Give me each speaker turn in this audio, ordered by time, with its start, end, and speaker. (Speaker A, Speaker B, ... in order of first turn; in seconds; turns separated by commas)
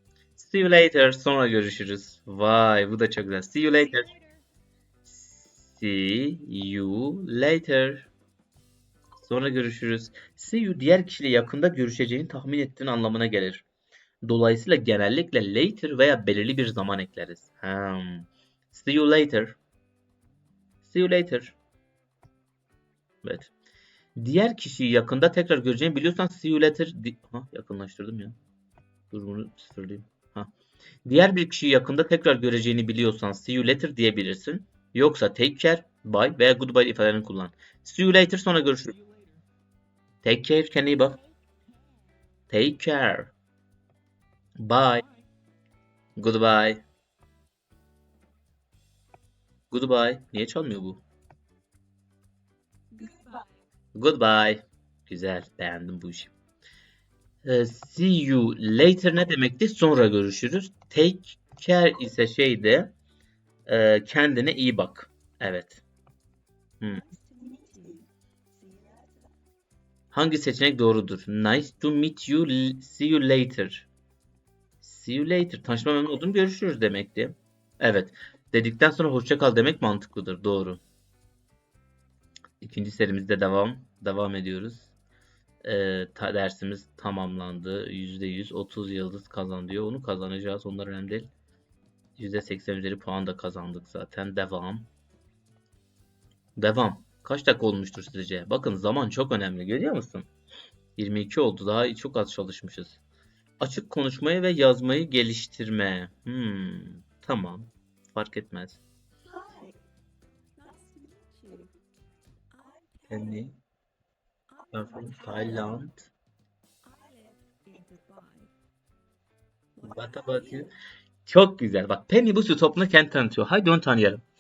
Speaker A: 0.4-4.1, Speaker B: 3.7-4.5, Speaker A: 5.1-8.1, Speaker A: 9.2-13.6, Speaker A: 14.2-19.6, Speaker A: 20.9-21.6, Speaker A: 23.2-23.5, Speaker A: 24.2-28.4, Speaker A: 29.1-30.5, Speaker A: 31.1-38.9, Speaker B: 38.9-39.4, Speaker A: 40.2-41.2, Speaker B: 40.8-42.2, Speaker A: 42.5-43.3, Speaker A: 44.6-45.0, Speaker B: 45.0-45.3, Speaker A: 46.2-46.8, Speaker A: 49.7-51.0, Speaker B: 52.9-53.6, Speaker A: 54.0-56.3, Speaker A: 57.5-63.0, Speaker A: 63.7-65.8, Speaker B: 66.9-69.3, Speaker A: 70.1-73.9, Speaker A: 74.8-80.8, Speaker A: 82.6-84.9, Speaker A: 85.6-91.3, Speaker A: 92.2-94.9, Speaker A: 96.6-100.3, Speaker A: 101.0-103.0, Speaker A: 103.6-108.8, Speaker B: 109.3-109.8, Speaker B: 110.6-111.8, Speaker B: 112.5-113.5, Speaker A: 113.1-113.6, Speaker B: 114.5-115.8, Speaker A: 114.7-116.1, Speaker B: 116.8-118.5, Speaker B: 119.8-120.7, Speaker A: 119.8-120.7, Speaker A: 121.3-124.2